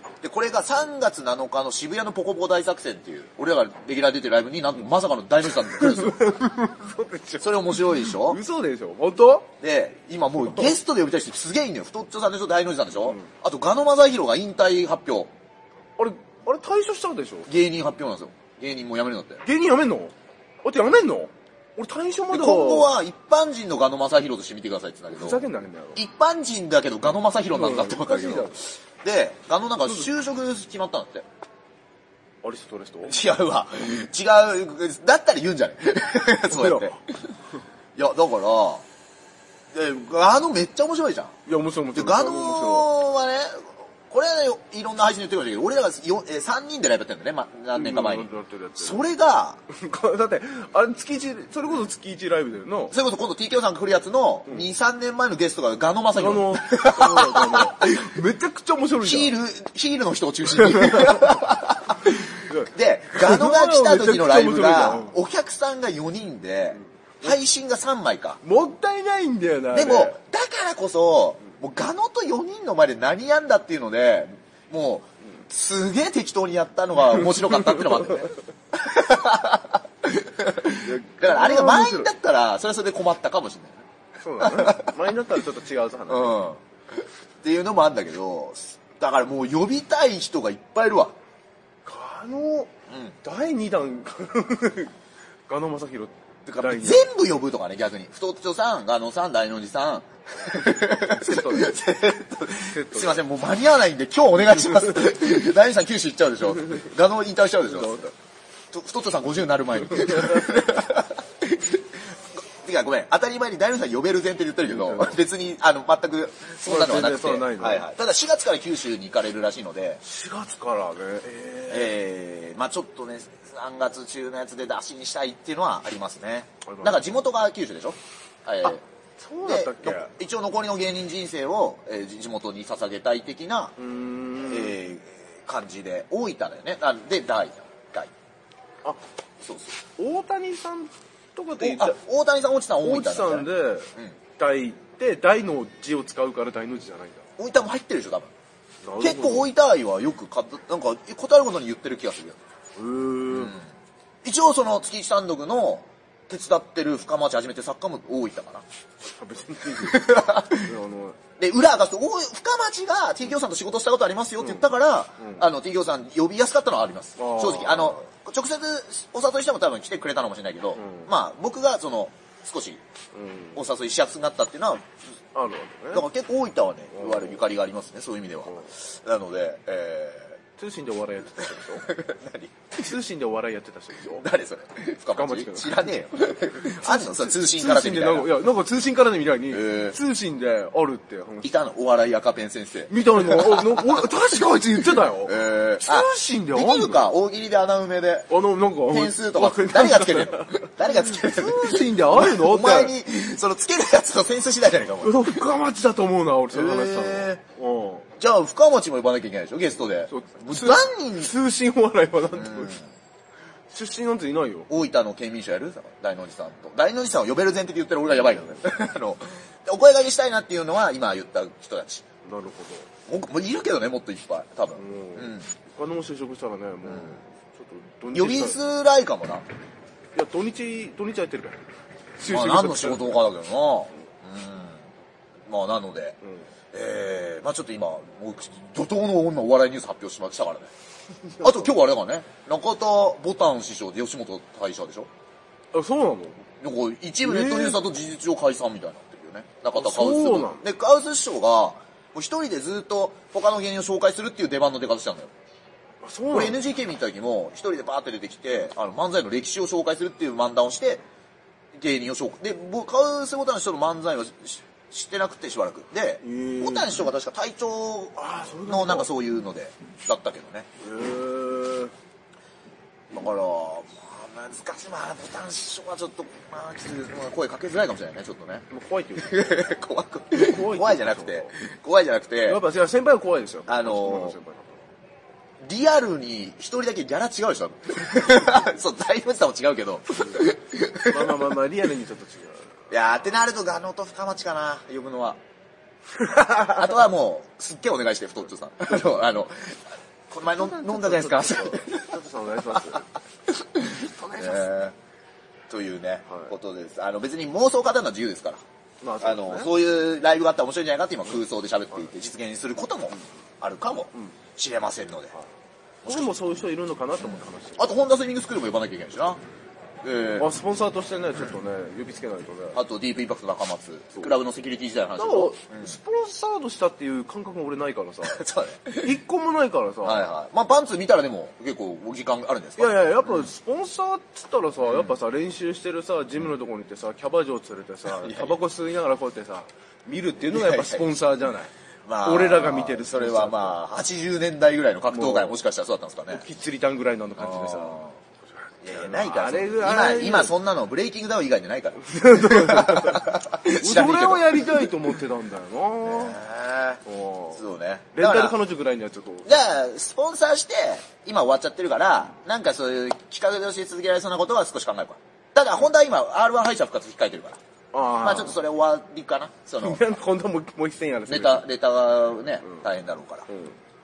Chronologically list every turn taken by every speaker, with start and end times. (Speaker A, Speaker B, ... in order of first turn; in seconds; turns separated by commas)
Speaker A: 0.2-6.3, Speaker B: 5.6-9.5, Speaker A: 7.4-8.4, Speaker A: 9.6-15.3, Speaker B: 16.0-17.5, Speaker A: 17.4-19.4, Speaker B: 19.4-22.9, Speaker A: 22.3-25.4, Speaker B: 25.1-26.0, Speaker A: 25.9-31.2, Speaker B: 27.5-28.6, Speaker B: 32.4-33.2, Speaker A: 33.0-37.4, Speaker B: 36.4-37.0, Speaker A: 38.0-38.8, Speaker A: 39.7-41.3, Speaker B: 41.5-42.9, Speaker A: 41.9-49.6, Speaker B: 47.7-49.0, Speaker B: 49.7-52.9, Speaker A: 52.9-57.9, Speaker B: 56.1-59.3, Speaker A: 59.0-68.4, Speaker B: 60.6-61.3, Speaker B: 62.4-65.2, Speaker B: 68.4-70.2, Speaker A: 69.7-83.8, Speaker B: 80.8-82.1, Speaker B: 84.2-86.5, Speaker A: 84.4-84.9, Speaker A: 86.1-91.1, Speaker B: 91.8-92.7, Speaker A: 92.9-93.2, Speaker B: 93.2-94.9, Speaker B: 95.5-97.1, Speaker A: 96.5-108.1, Speaker B: 100.8-101.8, Speaker B: 102.6-103.2, Speaker B: 107.7-108.1, Speaker A: 108.7-120.0, Speaker B: 114.6-115.2, Speaker B: 116.6-117.9, Speaker B: 120.0-122.0, Speaker A: 121.7-128.8, Speaker B: 126.7-127.0, Speaker B: 128.6-130.1, Speaker A: 129.4-133.7, Speaker B: 133.8-134.8, Speaker A: 134.4-138.1, Speaker A: 139.4-139.7, Speaker B: 140.0-142.0, Speaker A: 141.6-144.2, Speaker B: 142.8-147.2, Speaker A: 147.4-148.3, Speaker B: 148.8-149.5, Speaker A: 149.0-152.4, Speaker B: 152.8-153.5, Speaker A: 153.3-153.7, Speaker A: 154.2-158.6, Speaker B: 159.0-161.2, Speaker A: 159.7-160.7, Speaker A: 161.4-172.8, Speaker B: 164.4-164.7, Speaker B: 165.2-165.5, Speaker B: 167.2-168.0, Speaker B: 170.8-171.1, Speaker B: 173.1-173.6, Speaker A: 173.5-174.8, Speaker B: 175.3-176.0, Speaker A: 175.9-180.4, Speaker B: 176.9-177.4, Speaker B: 180.6-181.9, Speaker A: 181.8-182.8, Speaker B: 182.8-184.2, Speaker A: 184.2-188.3, Speaker B: 185.1-185.9, Speaker B: 186.5-191.5, Speaker A: 189.5-190.0, Speaker A: 191.4-194.0, Speaker B: 192.9-197.1, Speaker A: 195.2-205.4, Speaker B: 198.3-202.9, Speaker B: 205.0-208.1, Speaker A: 206.5-207.4, Speaker A: 208.2-211.3, Speaker B: 210.1-212.8, Speaker A: 212.3-212.9, Speaker B: 213.7-214.7, Speaker A: 214.7-222.1, Speaker B: 222.2-222.9, Speaker A: 223.1-225.5, Speaker B: 224.8-228.6, Speaker A: 226.8-227.2, Speaker A: 228.1-229.4, Speaker B: 230.1-231.6, Speaker B: 232.2-233.1, Speaker A: 232.2-234.8, Speaker A: 235.5-236.1, Speaker A: 236.7-240.7, Speaker A: 241.4-245.1, Speaker B: 245.7-246.4, Speaker A: 246.6-255.3, Speaker B: 247.2-247.8, Speaker B: 249.7-250.6, Speaker B: 256.0-256.6, Speaker A: 256.3-261.0, Speaker A: 261.7-270.7, Speaker B: 266.2-267.1, Speaker B: 268.2-269.1, Speaker B: 270.8-271.9, Speaker A: 273.1-282.6, Speaker B: 278.7-279.7, Speaker B: 280.4-281.6, Speaker B: 282.4-284.8, Speaker A: 283.7-284.4, Speaker A: 285.6-291.4, Speaker B: 291.1-292.7, Speaker A: 292.9-295.4, Speaker B: 296.2-296.9, Speaker A: 296.6-302.1, Speaker B: 300.5-303.0, Speaker A: 302.7-303.0, Speaker A: 303.6-304.9, Speaker B: 304.0-304.7, Speaker A: 305.7-308.6, Speaker B: 309.0-309.7, Speaker A: 309.2-315.3, Speaker B: 316.0-317.8, Speaker A: 316.0-316.3, Speaker A: 317.8-319.4, Speaker A: 320.0-320.5, Speaker B: 320.3-322.8, Speaker A: 322.7-325.9, Speaker B: 325.1-328.4, Speaker A: 328.2-329.1, Speaker B: 329.0-330.3, Speaker A: 330.0-333.5, Speaker B: 332.8-341.7, Speaker A: 338.1-338.6, Speaker A: 340.4-341.1, Speaker A: 342.1-346.4, Speaker B: 342.2-343.8, Speaker B: 345.1-345.6, Speaker B: 346.3-348.0, Speaker A: 347.4-348.2, Speaker A: 348.8-354.9, Speaker B: 348.9-350.6, Speaker B: 352.1-356.4, Speaker A: 356.0-357.0, Speaker B: 357.1-357.6, Speaker A: 357.5-358.6, Speaker B: 358.1-359.5, Speaker A: 359.4-367.6, Speaker B: 367.9-368.6, Speaker A: 368.2-370.0, Speaker B: 369.8-371.7, Speaker A: 371.3-373.5, Speaker B: 373.5-373.8